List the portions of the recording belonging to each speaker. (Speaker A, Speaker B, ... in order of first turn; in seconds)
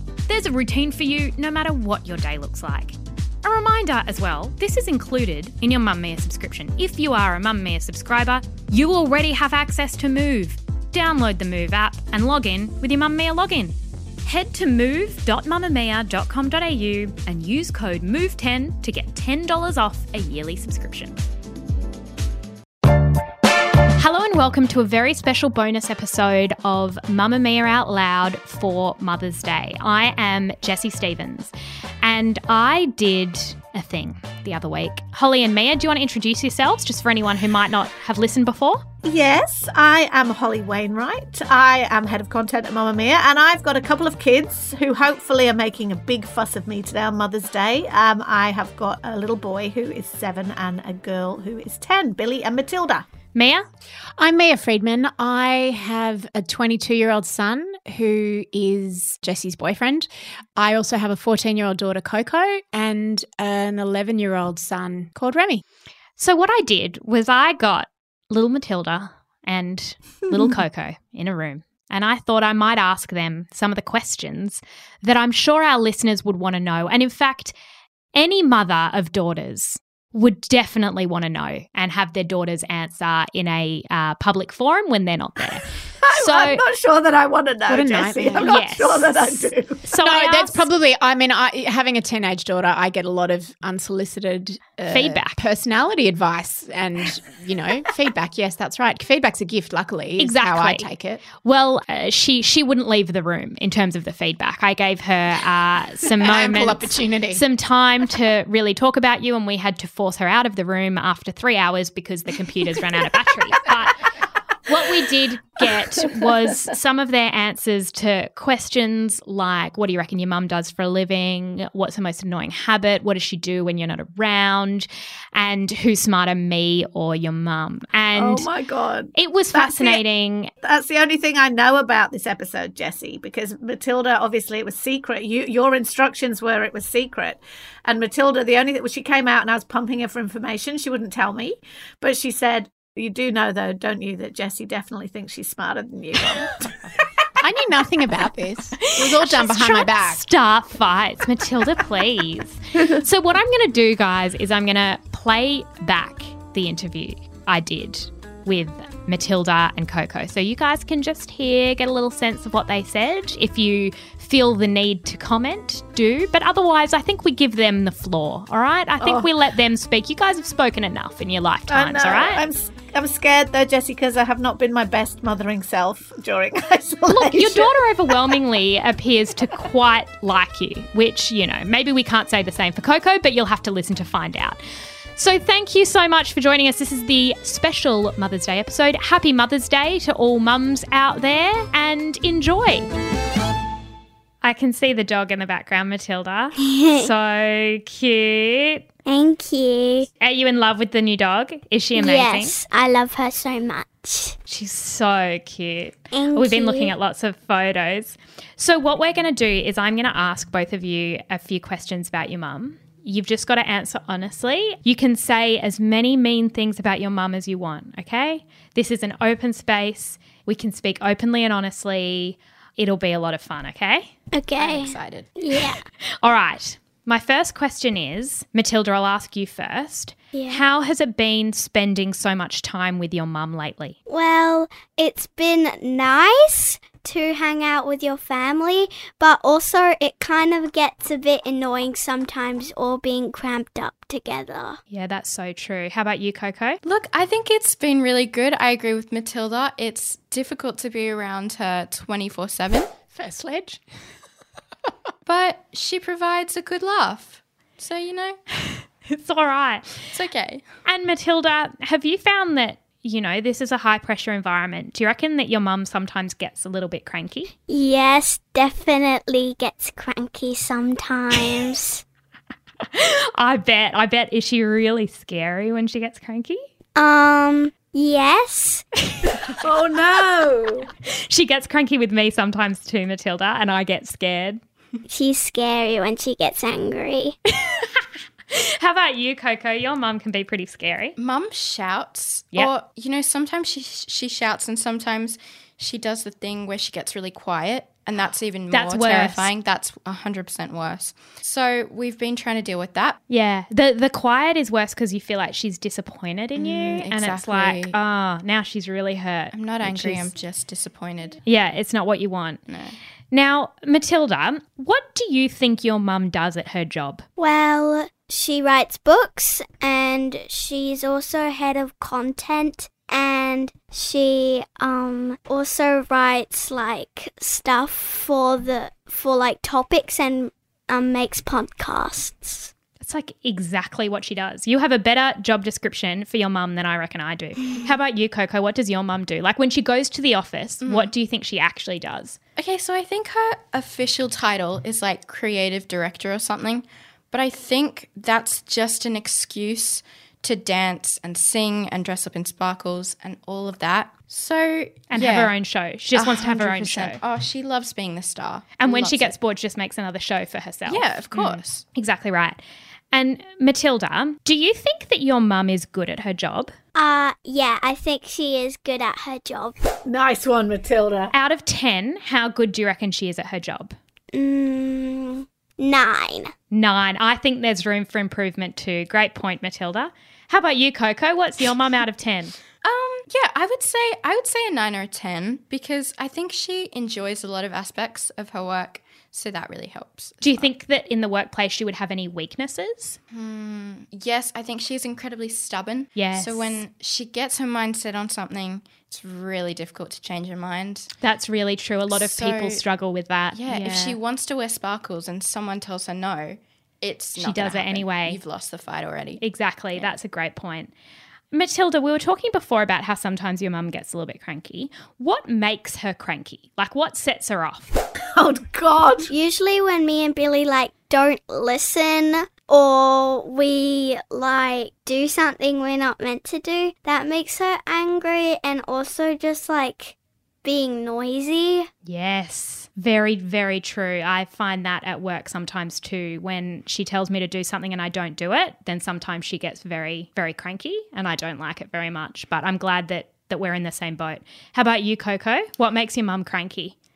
Speaker A: 0.3-21.2, 24.0-38.8, 53.3-53.6, 66.2-77.5, 78.1-86.6, 88.3-90.7, 94.9-95.4, 100.2-114.1, 114.6-128.5, 129.1-130.5, 148.8-172.4, 177.1-184.6, 185.2-192.9, 194.4-198.8, 200.2-202.6, 204.5-224.1, 226.2-233.9, 244.9-246.8, 258.7-260.1, 260.8-267.5, 272.9-276.6, 279.1-279.4, 281.1-284.6, 287.5-291.1, 298.7-299.5, 303.3-310.3, 311.4-312.6, 313.3-317.2, 333.0-342.4, 355.1-357.2, 358.8-362.6, 363.1-366.7, 371.3-373.9, 376.7-382.6, 390.4-393.2, 396.1-396.8, 401.2-404.2, 407.4-408.4, 409.4-410.9, 411.5-417.9, 432.0-446.9
Speaker B: 39.0-53.0, 86.0-89.8, 128.1-130.0, 130.6-147.1, 169.0-169.3, 171.7-178.2, 279.5-280.9, 370.1-371.3, 418.3-419.3
Speaker C: 54.2-65.6, 87.7-88.5, 90.0-101.2, 106.2-107.4, 147.4-150.2, 253.1-253.8
Speaker D: 196.6-197.1, 199.1-200.1, 201.9-204.3, 206.1-206.9, 224.3-225.8, 230.3-230.6, 234.1-244.8, 267.7-272.0, 276.9-278.9, 285.1-287.4, 317.4-332.7, 366.9-369.8, 374.3-376.5, 419.3-431.9
Speaker E: 224.6-225.3, 246.8-252.9, 255.2-258.4, 260.1-260.6, 291.2-303.2, 306.6-307.9, 309.5-311.4, 312.7-313.0, 340.8-341.1, 342.6-355.5, 356.1-359.3, 360.9-361.8, 382.8-390.7, 393.3-401.1, 402.1-402.8, 403.5-409.4